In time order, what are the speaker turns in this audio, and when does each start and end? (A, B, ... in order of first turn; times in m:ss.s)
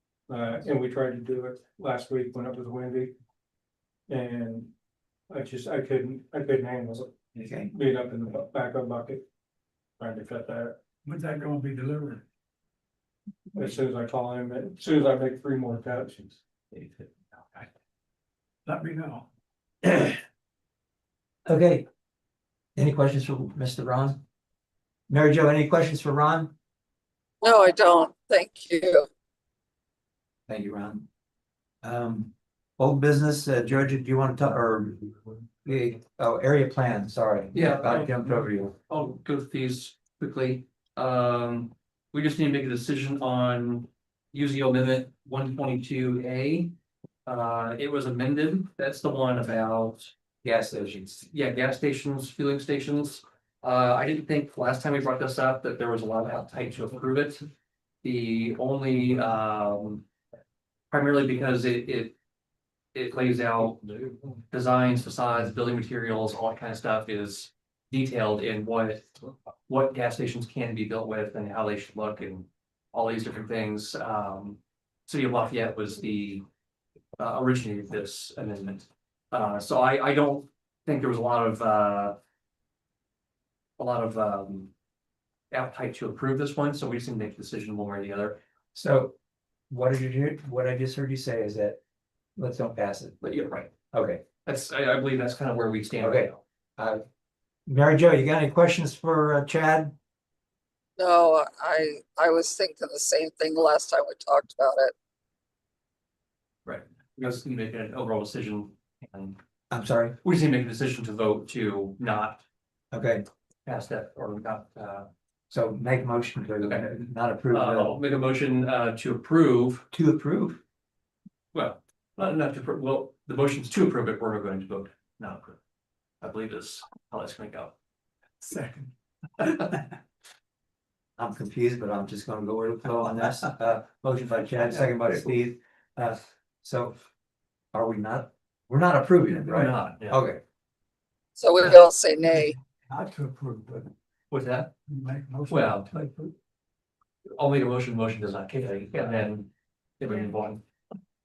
0:00.3-0:03.1 A
0:04.1-0:04.7 A
0:05.3-0:09.2 A
0:07.3-0:07.7 B
0:10.0-0:10.8 A
0:11.0-0:12.2 C
0:13.5-0:16.4 A
0:16.7-0:17.7 C
0:18.6-0:19.3 C
0:21.4-0:21.8 B
0:22.8-0:24.2 B
0:25.1-0:26.5 B
0:27.4-0:29.1 D
0:30.5-0:31.0 B
0:31.8-0:35.1 B
0:35.6-0:38.7 B
0:37.5-0:46.7 E
0:47.2-0:50.1 E
0:50.4-0:51.2 B
0:51.3-0:57.5 E
0:58.0-1:00.0 E
1:00.9-1:02.1 E
1:02.9-1:03.9 E
1:04.5-1:09.1 E
1:09.7-1:16.4 E
1:17.2-1:22.2 E
1:23.8-1:24.7 E
1:25.5-1:28.4 E
1:28.7-1:29.1 B
1:29.7-1:31.8 B
1:32.4-1:33.2 B
1:33.2-1:33.7 E
1:33.9-1:34.2 B
1:34.4-1:36.4 E
1:36.0-1:37.0 B
1:37.7-1:40.0 B
1:41.0-1:44.9 D
1:46.6-1:49.4 E
1:49.7-1:50.2 B
1:50.2-1:52.4 E
1:52.9-1:53.2 B
1:53.6-1:55.1 E
1:55.5-1:58.0 B
1:56.6-1:56.9 E
1:57.5-1:59.8 E
1:59.9-2:00.6 B
2:01.5-2:05.6 E
2:06.2-2:07.7 E
2:08.4-2:08.9 C
2:11.2-2:17.0 B
2:14.6-2:15.0 E
2:17.7-2:20.4 B
2:19.4-2:20.2 E
2:21.4-2:22.5 D
2:22.3-2:23.9 C
2:24.3-2:24.7 E
2:24.9-2:26.3 C
2:25.5-2:26.0 E
2:27.3-2:29.5 E
2:30.0-2:30.6 E